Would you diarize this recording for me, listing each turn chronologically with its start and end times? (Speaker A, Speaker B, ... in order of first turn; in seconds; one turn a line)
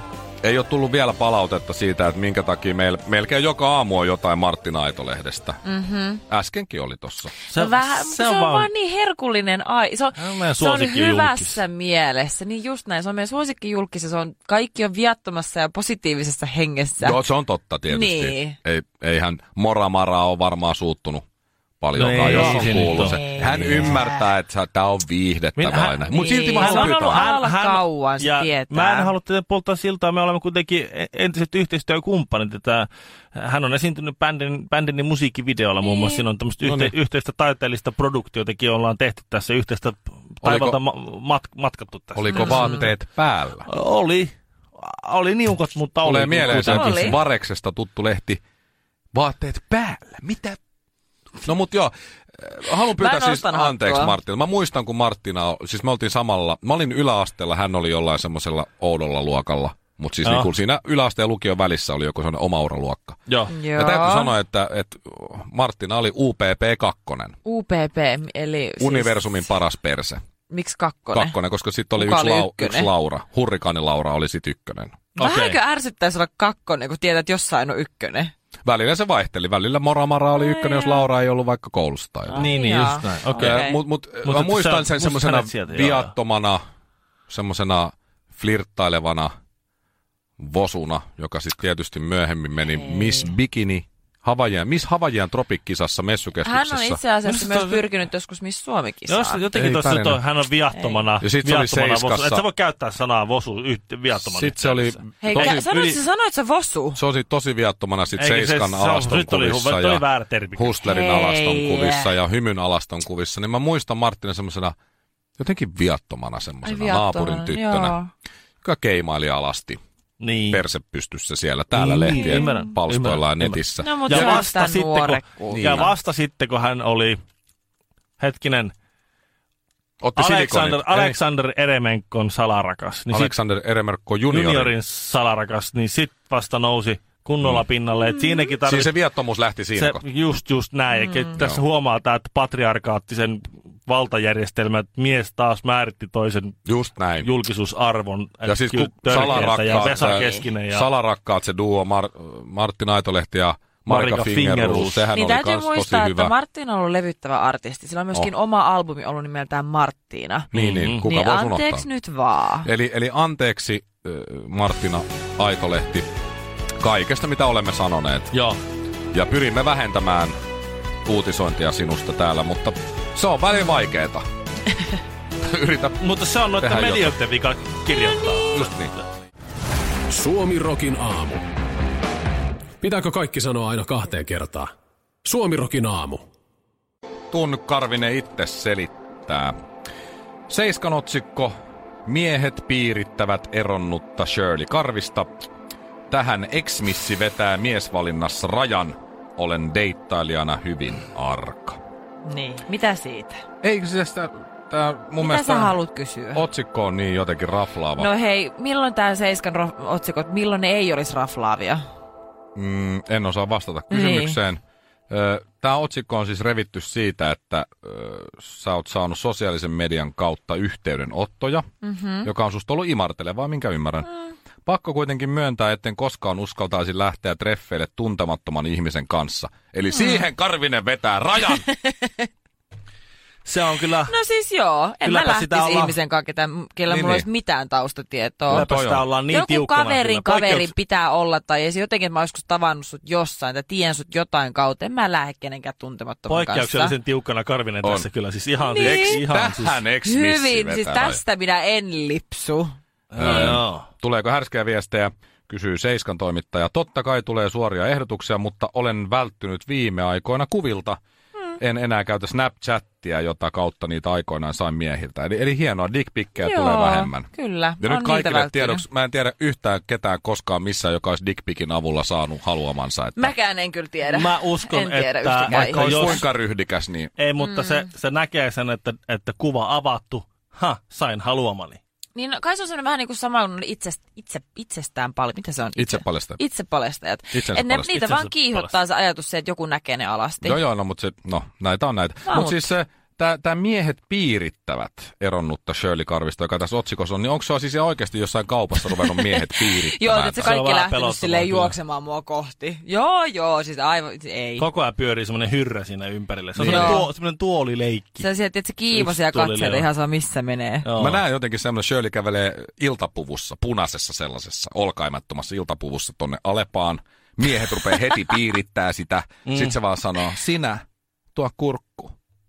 Speaker A: 0.4-5.6
Speaker B: 5.6-6.2
Speaker A: 6.3-7.3
Speaker C: 7.5-8.7
Speaker B: 7.5-17.2
Speaker C: 10.2-11.6
Speaker A: 17.0-21.2
Speaker B: 17.9-18.6
Speaker A: 21.8-27.2
Speaker C: 21.9-23.9
Speaker B: 22.3-24.3
Speaker C: 25.6-42.9
Speaker B: 26.1-29.1
Speaker B: 35.8-36.2
Speaker A: 36.6-36.9
Speaker A: 40.4-40.8
Speaker A: 42.1-43.6
Speaker B: 42.3-42.9
Speaker C: 43.6-47.2
Speaker A: 46.0-48.4
Speaker B: 46.4-47.2
Speaker A: 49.1-50.6
Speaker A: 51.4-63.2
Speaker B: 52.9-54.1
Speaker C: 60.2-60.5
Speaker C: 63.3-63.5
Speaker B: 63.5-64.3
Speaker A: 63.7-67.3
Speaker B: 67.4-69.5
Speaker A: 68.8-70.2
Speaker B: 70.5-71.3
Speaker A: 71.1-75.0
Speaker B: 71.9-72.9
Speaker B: 75.2-78.3
Speaker C: 75.2-75.6
Speaker A: 78.6-82.5
Speaker B: 80.3-81.0
Speaker C: 82.3-83.6
Speaker B: 82.3-83.8
Speaker A: 83.3-86.6
Speaker C: 84.2-86.1
Speaker A: 87.3-89.3
Speaker A: 90.4-97.0
Speaker B: 92.7-93.3
Speaker B: 96.4-99.4
Speaker C: 97.2-97.8
Speaker C: 99.1-106.0
Speaker A: 99.5-100.2
Speaker A: 101.2-102.4
Speaker A: 104.2-105.7
Speaker B: 105.2-107.0
Speaker A: 107.0-110.0
Speaker C: 108.2-110.8
Speaker A: 110.5-114.7
Speaker B: 110.8-112.1
Speaker A: 115.4-118.0
Speaker B: 116.6-118.1
Speaker A: 118.6-119.8
Speaker C: 120.2-120.6
Speaker A: 120.5-124.4
Speaker C: 121.8-127.2
Speaker B: 121.8-122.7
Speaker B: 123.8-125.9
Speaker A: 125.5-125.9
Speaker C: 128.2-128.7
Speaker A: 130.0-131.2
Speaker C: 130.2-133.3
Speaker A: 133.1-134.7
Speaker C: 134.3-138.9
Speaker A: 138.6-140.0
Speaker C: 139.8-146.6
Speaker A: 141.3-141.6
Speaker A: 146.7-147.3
Speaker C: 147.2-150.9
Speaker A: 148.4-156.3
Speaker B: 149.1-150.5
Speaker C: 153.9-155.1
Speaker B: 155.1-162.7
Speaker A: 160.5-161.8
Speaker C: 160.5-161.0
Speaker A: 162.6-166.1
Speaker A: 166.8-168.3
Speaker C: 168.3-168.6
Speaker A: 169.1-170.3
Speaker A: 171.0-174.2
Speaker A: 175.4-177.2
Speaker C: 176.0-179.0
Speaker A: 178.5-178.9
Speaker D: 180.1-181.4
Speaker D: 182.8-184.7
Speaker D: 185.2-186.2
Speaker A: 187.3-189.5
Speaker A: 190.5-191.5
Speaker A: 192.1-195.3
Speaker A: 196.1-201.8
Speaker B: 202.2-203.4
Speaker A: 203.6-205.8
Speaker B: 205.2-206.4
Speaker A: 206.3-208.1
Speaker B: 207.9-211.8
Speaker A: 212.5-221.7
Speaker B: 213.9-214.4
Speaker B: 221.8-222.3
Speaker A: 222.2-224.1
Speaker A: 224.6-231.7
Speaker B: 229.9-230.3
Speaker B: 231.6-232.3
Speaker C: 233.4-234.1
Speaker B: 234.1-238.7
Speaker C: 235.0-235.9
Speaker A: 236.9-237.2
Speaker A: 238.5-239.0
Speaker C: 238.5-240.7
Speaker B: 239.3-246.9
Speaker C: 246.3-249.8
Speaker A: 247.8-248.1
Speaker B: 248.6-249.2
Speaker A: 248.8-251.2
Speaker B: 250.0-253.5
Speaker C: 253.1-253.9
Speaker A: 253.2-261.0
Speaker A: 261.6-267.3
Speaker B: 266.4-268.8
Speaker A: 267.8-273.3
Speaker B: 273.1-276.2
Speaker C: 274.0-276.3
Speaker A: 275.5-277.1
Speaker C: 277.2-281.8
Speaker B: 277.4-277.8
Speaker B: 282.1-290.6
Speaker A: 285.8-286.4
Speaker A: 287.3-288.0
Speaker C: 287.9-288.7
Speaker A: 290.4-300.6
Speaker B: 292.3-292.7
Speaker B: 298.9-304.7
Speaker C: 300.4-301.8
Speaker C: 304.6-308.2
Speaker A: 306.5-307.0
Speaker B: 306.6-307.1
Speaker B: 308.2-310.9
Speaker C: 308.9-309.9
Speaker C: 310.8-311.2
Speaker A: 311.0-320.8
Speaker C: 319.4-319.8
Speaker A: 321.3-322.1